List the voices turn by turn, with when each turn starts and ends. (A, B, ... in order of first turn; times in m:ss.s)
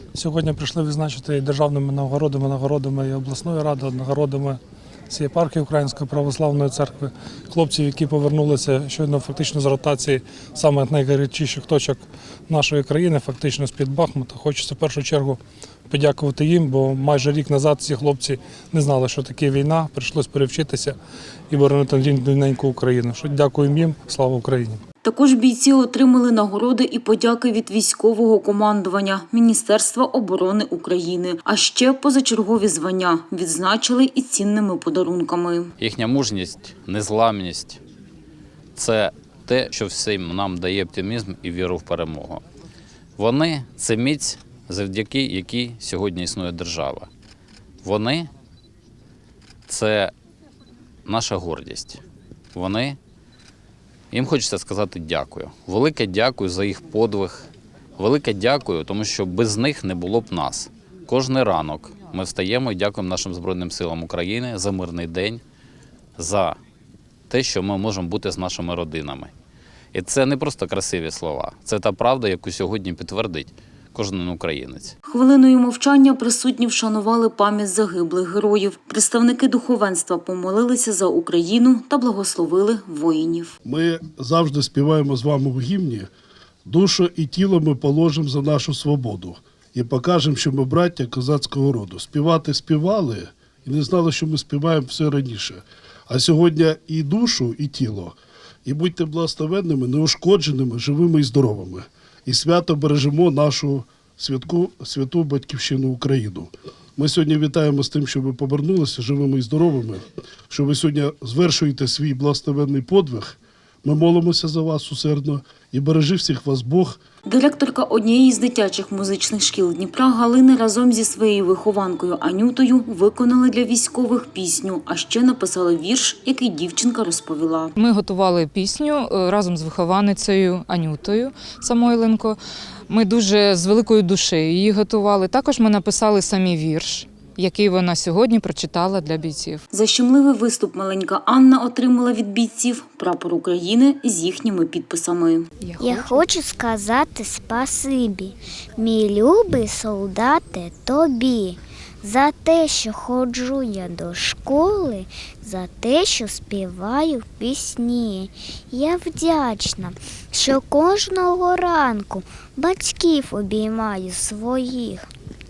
0:00.1-0:21.0 A
0:21.5-0:24.8 A
0:25.0-0:35.7 B
0:35.8-0:37.8 C
0:38.8-0:42.4 C
0:43.2-0:47.1 C
0:47.8-0:48.3 C
0:49.7-0:50.1 C
0:51.0-0:52.0 C
0:52.5-0:53.0 C
0:54.1-1:05.4 C
1:06.2-1:06.6 C
1:07.3-1:09.3 C
1:09.9-1:14.9 C
1:15.1-1:23.5 B
1:23.6-1:26.1 D
1:26.6-1:57.0 D
1:57.2-2:07.7 B
2:07.8-2:12.4 E
2:12.9-2:19.6 E
2:19.7-2:25.4 B
2:25.6-2:26.2 E
2:25.8-2:45.1 F